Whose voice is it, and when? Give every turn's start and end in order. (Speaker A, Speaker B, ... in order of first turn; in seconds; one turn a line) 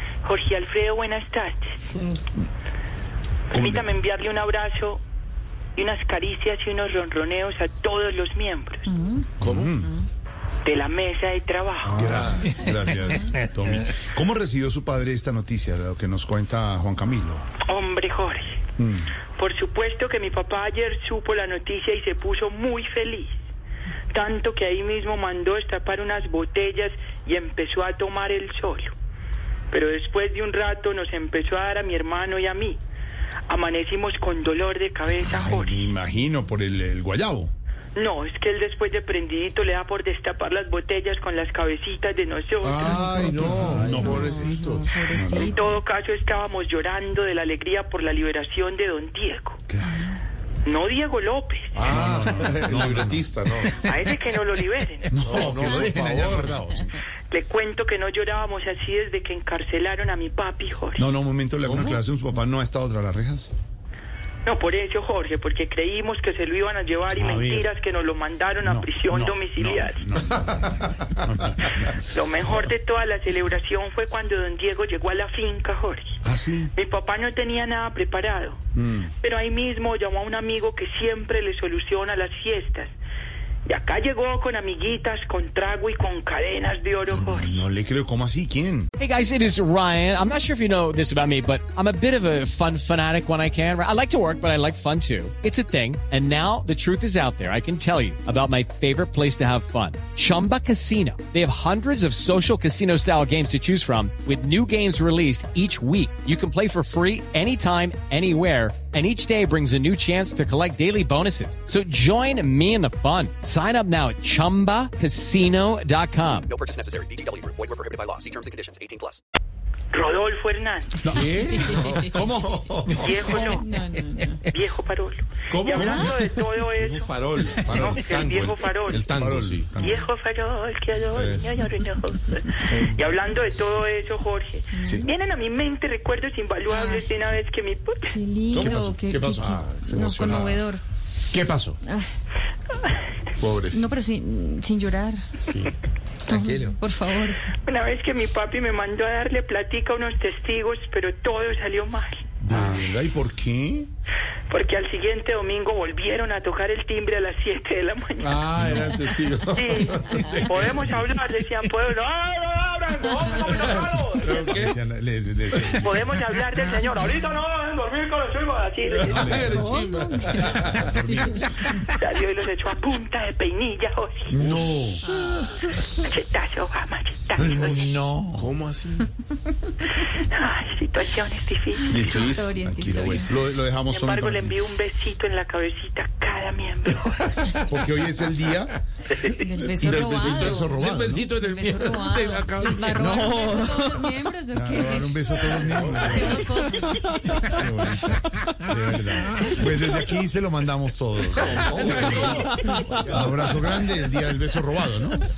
Speaker A: 0.2-1.8
Speaker A: 3.5-5.0
Speaker B: 3.5-4.0
Speaker A: 5.8-9.0
Speaker B: 9.4-9.9
Speaker C: 9.4-9.8
Speaker A: 10.6-12.1
Speaker B: 11.9-17.4
Speaker C: 11.9-12.6
Speaker A: 17.6-18.6
Speaker B: 18.8-19.1
Speaker A: 19.4-23.4
Speaker A: 24.1-28.9
Speaker A: 29.7-32.8
Speaker A: 33.5-35.9
Speaker B: 35.2-37.5
Speaker A: 37.9-43.1
Speaker C: 42.6-45.0
Speaker D: 42.9-45.7
Speaker B: 43.3-44.5
Speaker B: 45.1-45.6
Speaker A: 45.4-49.6
Speaker A: 50.6-51.8
Speaker C: 51.7-53.9
Speaker B: 51.9-53.8
Speaker A: 53.8-55.1
Speaker C: 55.1-56.6
Speaker B: 55.1-57.0
Speaker A: 57.3-61.0
Speaker B: 61.0-63.5
Speaker C: 61.6-62.0
Speaker A: 64.4-70.0
Speaker B: 67.1-67.7
Speaker B: 68.6-72.0
Speaker C: 70.4-70.8
Speaker A: 72.1-76.2
Speaker B: 76.2-76.7
Speaker A: 76.7-78.6
Speaker B: 78.7-79.1
Speaker A: 79.2-82.9
Speaker A: 83.7-87.5
Speaker B: 87.1-88.9
Speaker E: 89.0-116.5
Speaker F: 116.5-119.2
Speaker A: 119.9-121.0
Speaker B: 121.0-123.4
Speaker C: 121.1-124.4
Speaker A: 122.9-123.7
Speaker D: 123.6-124.4
Speaker A: 124.5-127.1
Speaker C: 125.5-129.8
Speaker D: 125.7-126.1
Speaker B: 127.6-128.2
Speaker A: 127.7-129.1
Speaker B: 129.0-130.0
Speaker A: 129.8-138.1
Speaker C: 131.1-131.8
Speaker C: 132.6-133.0
Speaker D: 134.7-135.0
Speaker D: 136.7-137.1
Speaker D: 138.1-140.8
Speaker C: 138.5-140.7
Speaker B: 138.6-139.5
Speaker C: 141.3-141.8
Speaker D: 141.8-142.1
Speaker C: 143.4-143.9
Speaker D: 143.7-145.2
Speaker C: 145.4-145.8
Speaker D: 146.3-147.4
Speaker C: 146.3-146.8
Speaker A: 147.6-152.2
Speaker B: 152.4-153.9
Speaker A: 154.5-158.4
Speaker C: 158.2-160.8
Speaker B: 158.6-158.9
Speaker A: 159.5-164.4
Speaker C: 163.5-164.8
Speaker B: 164.3-166.2
Speaker A: 165.8-169.4
Speaker C: 168.9-171.4
Speaker B: 169.1-171.5
Speaker D: 169.5-170.4
Speaker A: 171.9-174.3
Speaker B: 174.3-175.0
Speaker C: 174.4-175.8
Speaker A: 176.0-178.0
Speaker B: 177.3-178.5
Speaker C: 178.3-179.1
Speaker A: 180.1-182.0
Speaker C: 181.8-183.4
Speaker D: 181.9-183.3
Speaker B: 182.6-184.6
Speaker A: 183.8-187.1
Speaker C: 187.1-187.6
Speaker B: 187.5-188.7
Speaker D: 189.4-197.3
Speaker C: 189.5-194.2
Speaker B: 189.7-191.3
Speaker B: 194.5-196.7
Speaker C: 195.5-197.6
Speaker B: 197.3-205.3
Speaker C: 201.4-203.7